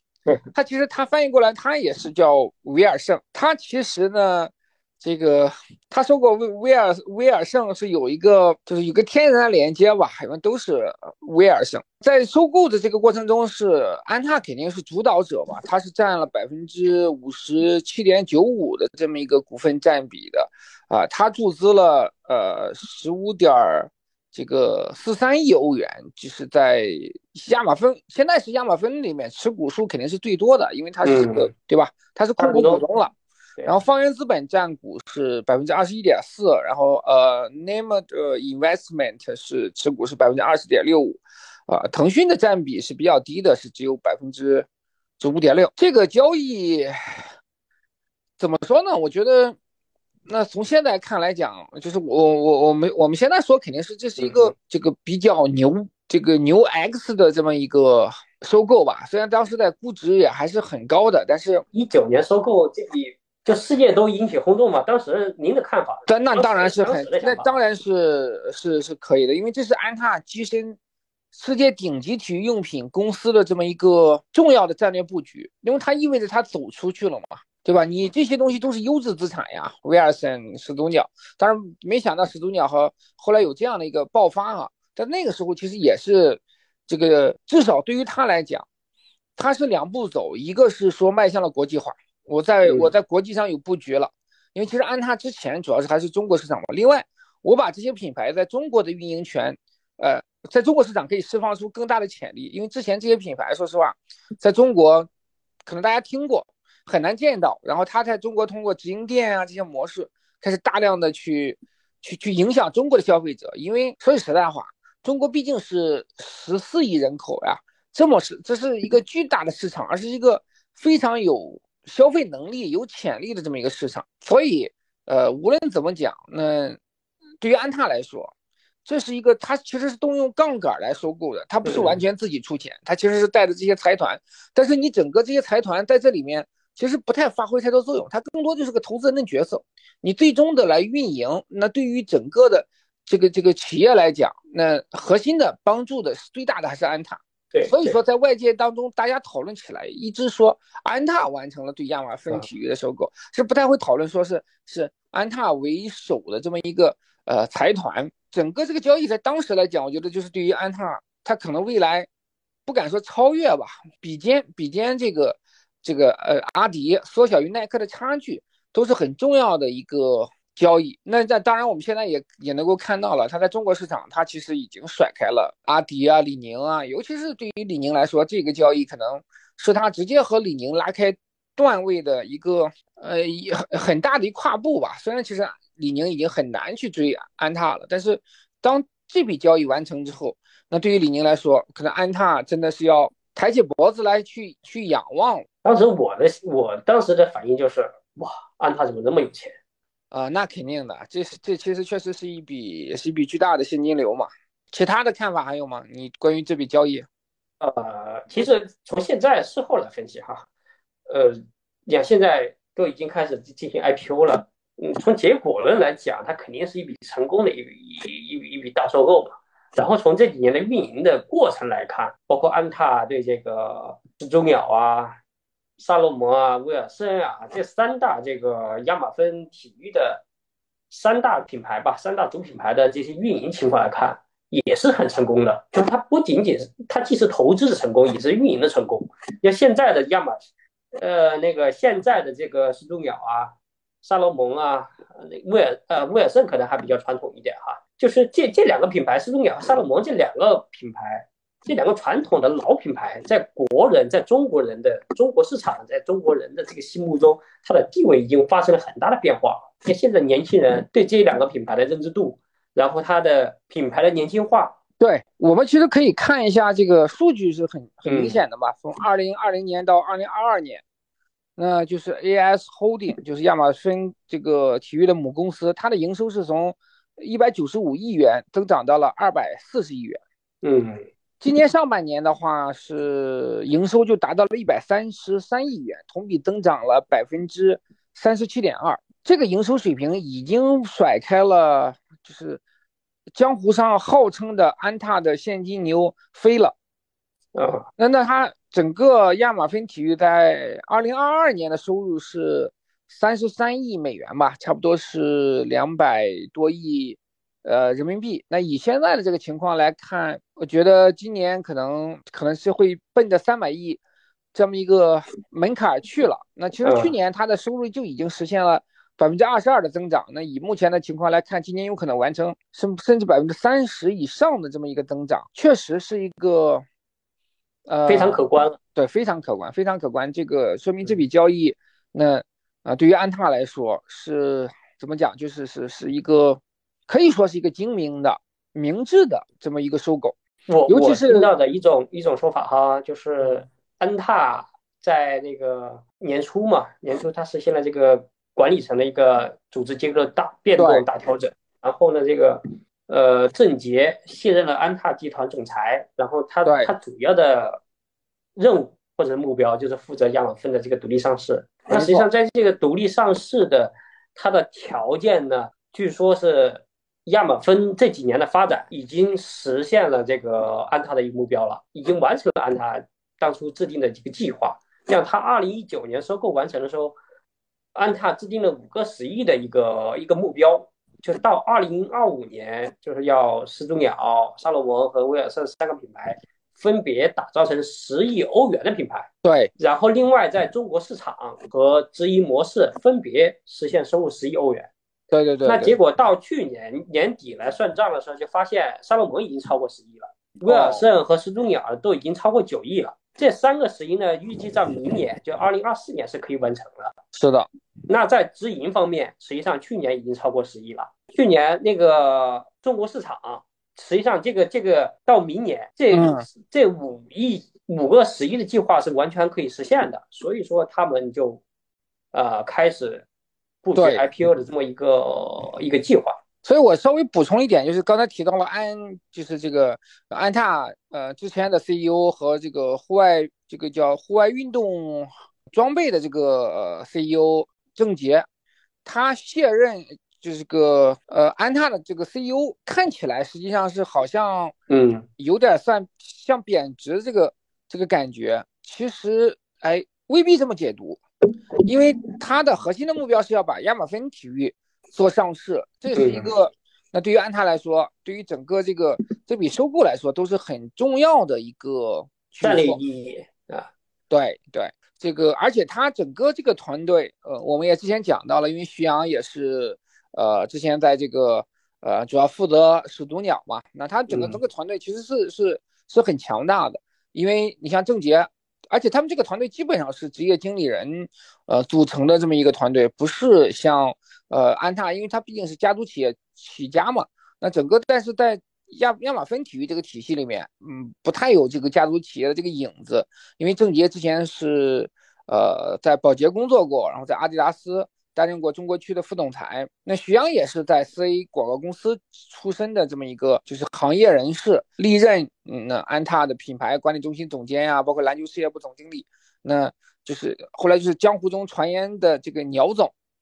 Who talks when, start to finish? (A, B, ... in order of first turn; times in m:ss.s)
0:00.5-0:33.1 A
0:31.0-0:31.5 B
0:32.4-0:32.8 B
0:33.6-0:44.7 A
0:45.2-0:47.3 A
0:48.4-0:49.6 A
0:50.2-1:01.6 A
0:54.2-0:54.5 B
1:01.7-1:07.5 B
1:06.1-1:10.8 A
1:11.3-1:28.6 A
1:29.4-1:45.1 A
1:32.6-1:32.9 B
1:45.6-2:06.8 A
2:07.4-2:08.3 A
2:08.8-2:42.1 A
2:11.6-2:12.0 B
2:27.5-2:28.0 B
2:42.6-3:15.4 A
3:15.6-3:19.6 B
3:20.1-3:27.0 A
3:27.6-3:30.5 B
3:31.1-3:45.2 B
3:45.8-3:50.2 B
3:50.9-4:00.4 B
4:01.0-4:24.8 B
4:25.0-4:30.8 A
4:28.0-4:28.4 B
4:31.6-4:40.2 A
4:40.6-4:41.0 B
4:41.4-4:52.6 A
4:53.3-4:56.7 A
4:57.5-4:57.8 B
4:58.0-5:14.0 A
5:14.5-5:26.8 A
5:16.8-5:17.1 B
5:27.9-5:28.4 A
5:28.0-5:28.8 B
5:28.9-5:40.4 A
5:40.7-5:57.8 B
5:40.9-5:41.5 A
5:50.8-5:51.0 A
5:56.6-5:56.9 A
5:58.6-6:17.2 B
6:01.9-6:02.3 A
6:17.9-6:34.9 B
6:29.4-6:29.7 A
6:35.3-6:36.0 A
6:35.6-6:47.1 B
6:40.6-6:41.0 A
6:47.3-6:47.7 A
6:48.1-7:01.6 B
6:56.1-6:56.4 A
7:02.3-7:03.2 B
7:03.8-7:06.4 B
7:04.0-7:04.2 A
7:06.6-7:18.4 A
7:19.0-7:24.7 A
7:24.9-7:25.3 B
7:25.4-7:31.2 A
7:31.8-7:43.0 A
7:36.1-7:36.5 B
7:42.6-7:43.9 B
7:44.3-8:33.1 A
7:54.3-7:54.6 B